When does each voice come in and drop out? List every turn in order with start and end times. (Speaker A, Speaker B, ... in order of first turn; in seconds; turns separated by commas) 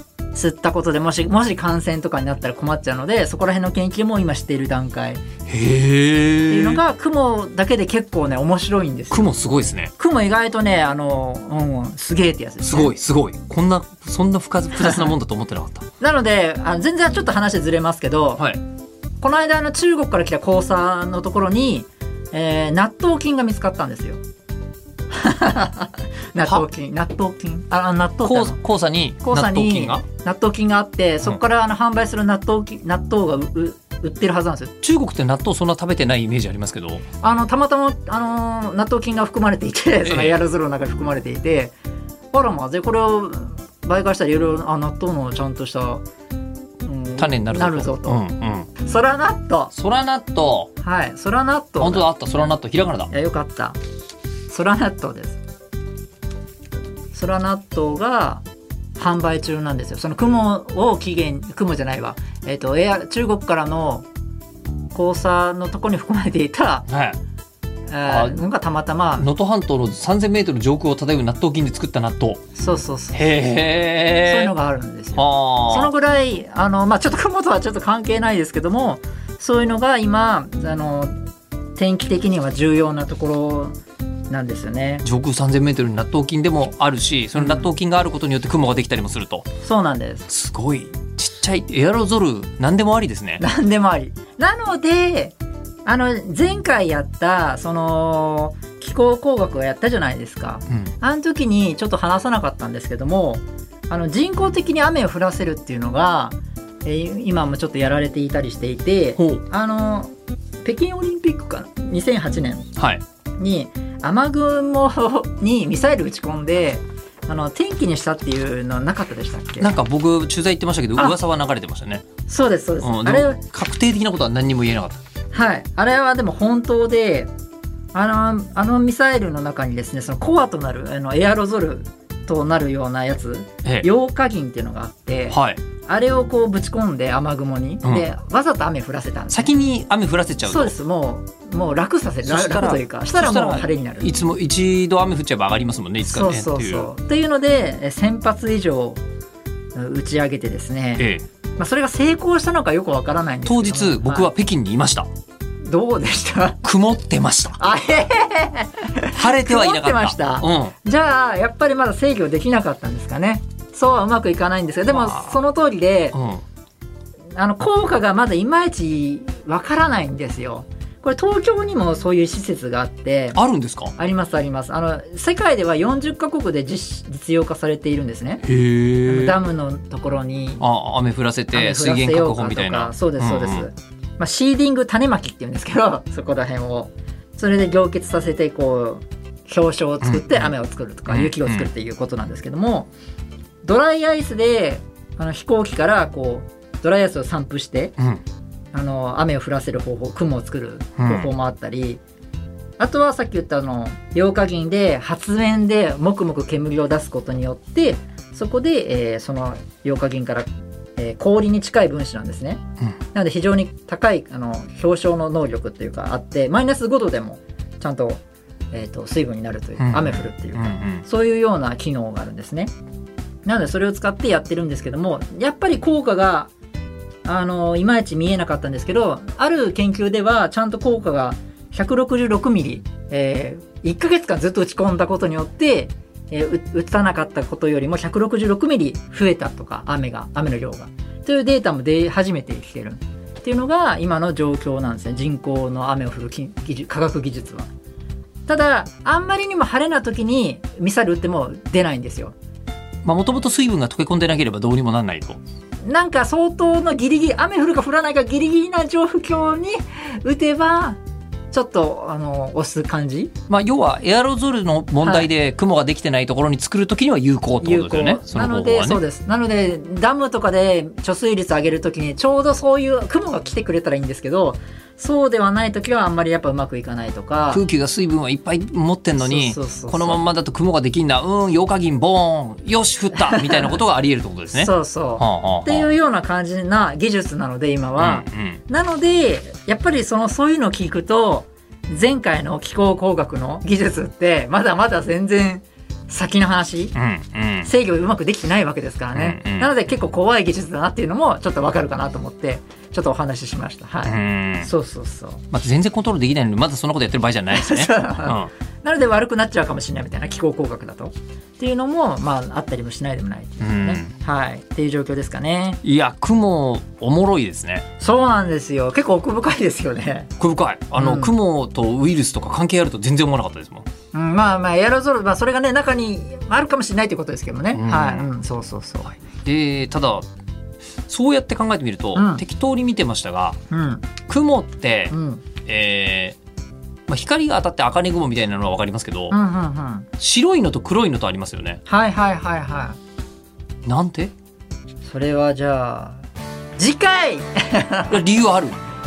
Speaker A: 0.3-5.2, Speaker B: 5.5-6.8, Speaker A: 6.5-9.3, Speaker B: 9.1-9.9, Speaker A: 10.0-12.9, Speaker B: 12.6-15.9, Speaker A: 16.0-18.4, Speaker A: 19.2-24.2, Speaker A: 25.1-28.6, Speaker B: 28.2-30.0, Speaker A: 29.2-34.7, Speaker B: 34.8-37.0, Speaker A: 37.2-41.7, Speaker B: 40.0-40.4, Speaker A: 42.3-46.0, Speaker A: 46.8-48.2, Speaker B: 47.2-48.7, Speaker A: 48.8-49.7, Speaker B: 49.7-50.7, Speaker A: 50.8-52.1, Speaker B: 51.8-53.1, Speaker A: 53.1-53.8, Speaker A: 54.5-55.4, Speaker A: 57.1-58.4, Speaker A: 59.0-64.1, Speaker A: 64.9-66.9, Speaker B: 66.9-67.2, Speaker A: 67.9-69.3, Speaker B: 68.1-68.4, Speaker B: 69.2-72.4, Speaker A: 72.6-73.2, Speaker B: 73.1-74.5, Speaker A: 74.2-81.1, Speaker B: 75.2-75.9, Speaker A: 81.8-83.8, Speaker A: 84.3-85.0, Speaker B: 85.0-89.5, Speaker A: 87.4-87.7, Speaker A: 89.6-90.3, Speaker B: 90.3-93.4, Speaker A: 93.4-110.1, Speaker B: 109.2-109.4, Speaker A: 110.6-112.7, Speaker B: 112.8-113.0, Speaker A: 113.4-119.7, Speaker B: 119.6-122.1, Speaker A: 122.3-123.4, Speaker B: 122.8-125.0, Speaker A: 125.3-127.3, Speaker A: 127.9-139.5, Speaker B: 135.3-135.6, Speaker B: 139.3-140.8, Speaker A: 140.4-144.1, Speaker B: 142.2-146.9, Speaker A: 146.0-149.0, Speaker A: 149.8-151.1, Speaker B: 151.0-151.2, Speaker A: 151.6-154.3, Speaker B: 153.4-155.1, Speaker A: 155.7-156.6, Speaker B: 156.6-157.6, Speaker A: 157.6-166.2, Speaker B: 159.1-160.8, Speaker B: 164.9-165.4, Speaker B: 166.1-166.4, Speaker A: 167.4-173.4, Speaker B: 173.3-173.9, Speaker A: 174.0-178.4, Speaker B: 178.4-179.4, Speaker A: 179.1-180.6, Speaker B: 180.6-183.7, Speaker A: 181.5-192.9, Speaker B: 190.0-190.5, Speaker B: 191.1-191.7, Speaker A: 193.6-197.9, Speaker A: 198.7-202.0, Speaker B: 201.0-201.3, Speaker A: 202.8-210.5, Speaker A: 211.0-218.2, Speaker A: 218.7-222.7, Speaker B: 219.8-221.1, Speaker A: 223.5-226.5, Speaker A: 227.2-247.7, Speaker A: 248.5-252.3, Speaker B: 253.0-255.4, Speaker A: 255.8-261.0, Speaker A: 261.5-263.3, Speaker B: 263.5-269.0, Speaker A: 265.0-265.3, Speaker A: 267.6-277.6, Speaker B: 277.5-285.9, Speaker A: 279.2-280.2, Speaker A: 283.1-283.8, Speaker A: 284.5-296.9, Speaker B: 288.0-288.6, Speaker B: 296.9-297.7, Speaker A: 297.6-305.4, Speaker B: 299.1-299.7, Speaker B: 304.1-304.7, Speaker B: 305.5-308.5, Speaker A: 307.5-315.8, Speaker B: 313.6-314.1, Speaker B: 315.8-317.9, Speaker A: 318.0-320.3, Speaker B: 320.4-323.9, Speaker A: 320.9-321.3, Speaker A: 324.1-329.1, Speaker B: 327.7-328.3, Speaker B: 329.2-330.2, Speaker B: 331.1-333.6, Speaker A: 332.1-332.4, Speaker A: 333.7-334.1, Speaker B: 334.2-335.1, Speaker A: 335.1-335.4, Speaker B: 335.6-336.4, Speaker B: 337.1-339.3, Speaker A: 339.3-340.1, Speaker B: 340.2-341.8, Speaker A: 341.9-343.0, Speaker B: 343.9-344.3, Speaker A: 345.1-346.2, Speaker A: 346.8-348.2, Speaker B: 348.1-348.8